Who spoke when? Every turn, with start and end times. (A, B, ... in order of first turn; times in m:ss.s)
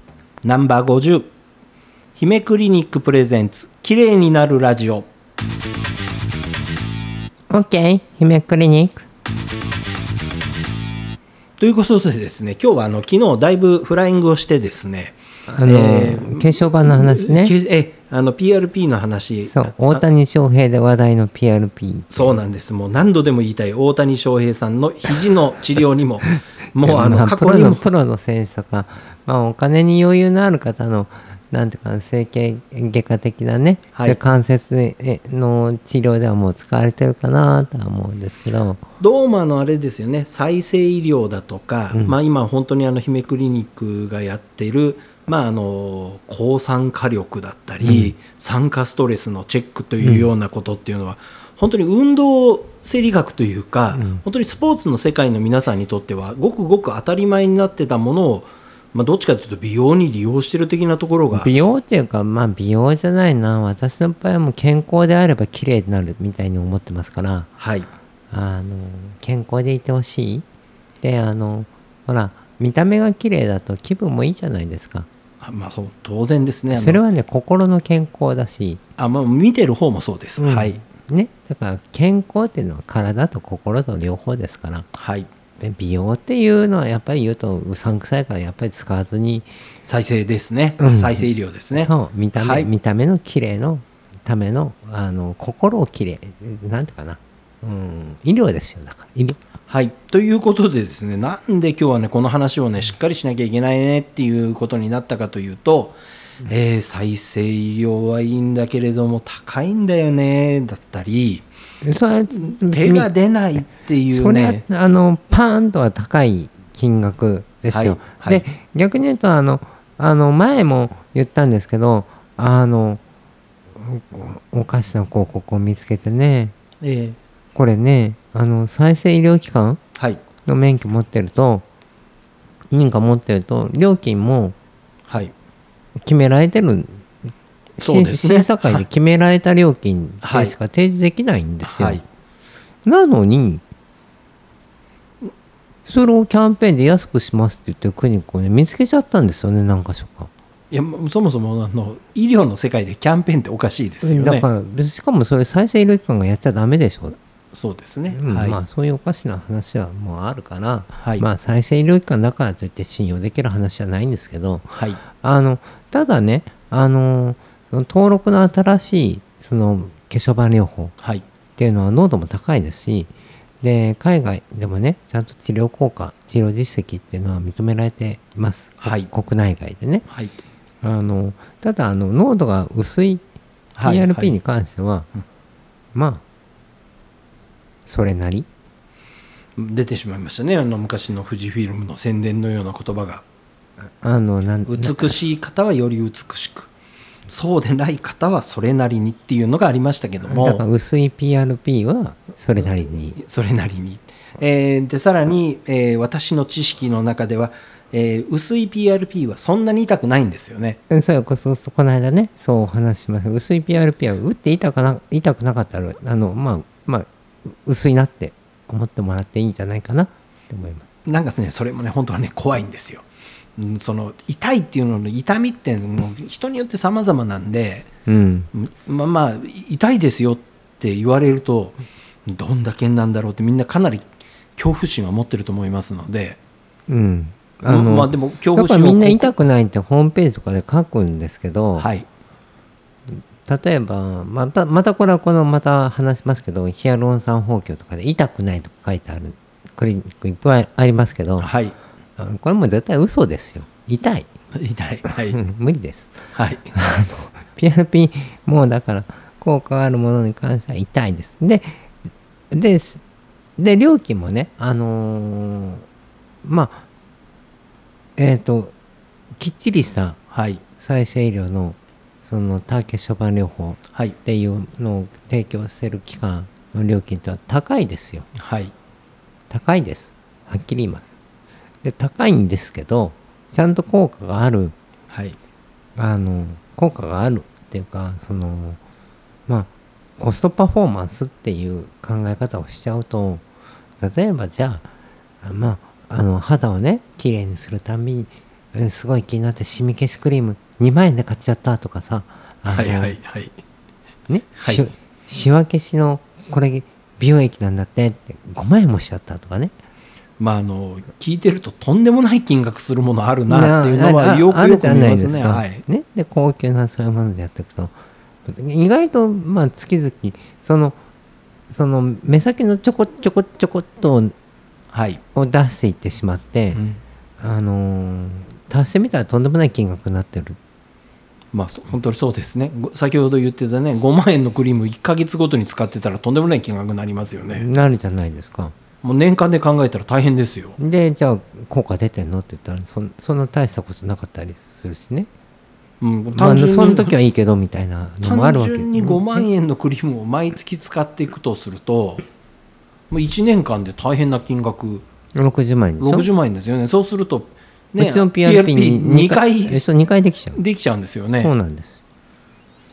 0:00.4-0:01.3 A
0:02.2-0:05.1 A
0:07.5-0:09.0 B
0:11.6-0:20.0 A
0:15.5-0:17.5 B
0:19.5-0:22.4 B
0:22.1-0:27.9 A
0:26.8-0:38.8 B
0:39.0-1:01.5 A
0:47.8-0:48.1 B
0:50.0-0:50.3 B
0:53.9-0:54.2 B
1:01.3-1:07.5 B
1:07.6-1:07.9 A
1:08.3-1:10.4 B
1:11.0-1:15.1 B
1:15.4-1:17.0 A
1:16.7-1:18.8 B
1:19.0-1:20.8 A
1:20.4-1:24.9 B
1:25.0-1:25.3 A
1:25.6-1:29.5 B
1:29.8-1:32.7 A
1:30.8-1:39.4 B
1:39.7-1:51.5 A
1:51.8-2:03.0 B
1:52.5-1:54.6 A
1:57.7-1:58.4 A
2:03.8-2:06.6 B
2:06.8-2:07.2 A
2:07.6-2:09.8 B
2:10.5-2:11.6 B
2:12.7-2:14.6 B
2:16.0-2:17.1 B
2:17.8-2:22.0 B
2:17.8-2:18.8 A
2:20.2-2:20.5 A
2:21.6-2:22.0 A
2:22.8-2:23.6 B
2:25.9-2:30.3 B
2:30.7-2:34.5 A
2:34.0-2:37.2 B
2:37.5-2:38.6 A
2:38.1-2:44.7 B
2:44.7-2:45.0 A
2:45.2-2:50.9 B
2:51.6-3:00.0 B
2:58.8-2:59.1 A
3:00.8-3:03.2 B
3:03.8-3:04.4 A
3:03.8-3:05.1 B
3:05.9-3:06.2 B
3:07.9-3:08.5 B
3:09.6-3:13.2 A
3:14.0-3:15.2 B
3:14.7-3:16.7 A
3:17.3-3:20.6 A
3:20.3-3:23.2 B
3:23.2-3:30.8 A
3:30.9-3:40.8 B
3:41.1-3:43.1 A
3:43.6-3:47.9 A
3:48.1-3:48.5 B
3:48.5-3:56.4 A
3:56.9-4:01.9 B
3:57.7-3:59.3 A
4:01.8-4:02.1 A
4:03.1-4:11.5 B
4:11.4-4:11.8 A
4:12.2-4:14.3 B
4:14.6-4:15.4 A
4:15.3-4:21.9 B
4:16.3-4:16.7 A
4:22.5-4:23.0 B
4:23.6-4:25.8 B
4:26.4-4:26.8 B
4:28.2-4:28.7 B
4:29.4-4:30.2 B
4:30.3-4:30.6 A
4:30.8-4:38.3 B
4:38.4-4:38.7 A
4:39.5-4:41.1 B
4:41.8-4:44.7 B
4:45.1-4:45.4 A
4:46.0-4:48.8 B
4:49.5-4:53.4 B
4:54.0-4:54.9 B
4:55.4-5:03.2 B
5:02.7-5:03.6 A
5:04.3-5:09.7 B
5:04.6-5:04.8 A
5:10.4-5:15.8 A
5:13.5-5:18.0 B
5:18.5-5:21.0 B
5:21.7-5:24.3 B
5:24.9-5:25.2 A
5:25.4-5:26.8 B
5:26.7-5:27.0 A
5:27.4-5:30.6 B
5:31.5-5:37.7 A
5:37.6-5:38.7 B
5:39.0-5:40.8 A
5:40.8-5:45.3 B
5:46.0-5:47.2 A
5:46.3-5:49.5 B
5:48.2-5:52.3 A
5:53.1-5:55.0 A
5:55.4-5:56.3 B
5:56.0-5:59.9 A
5:58.0-6:00.6 B
6:00.5-6:01.5 A
6:01.3-6:02.0 B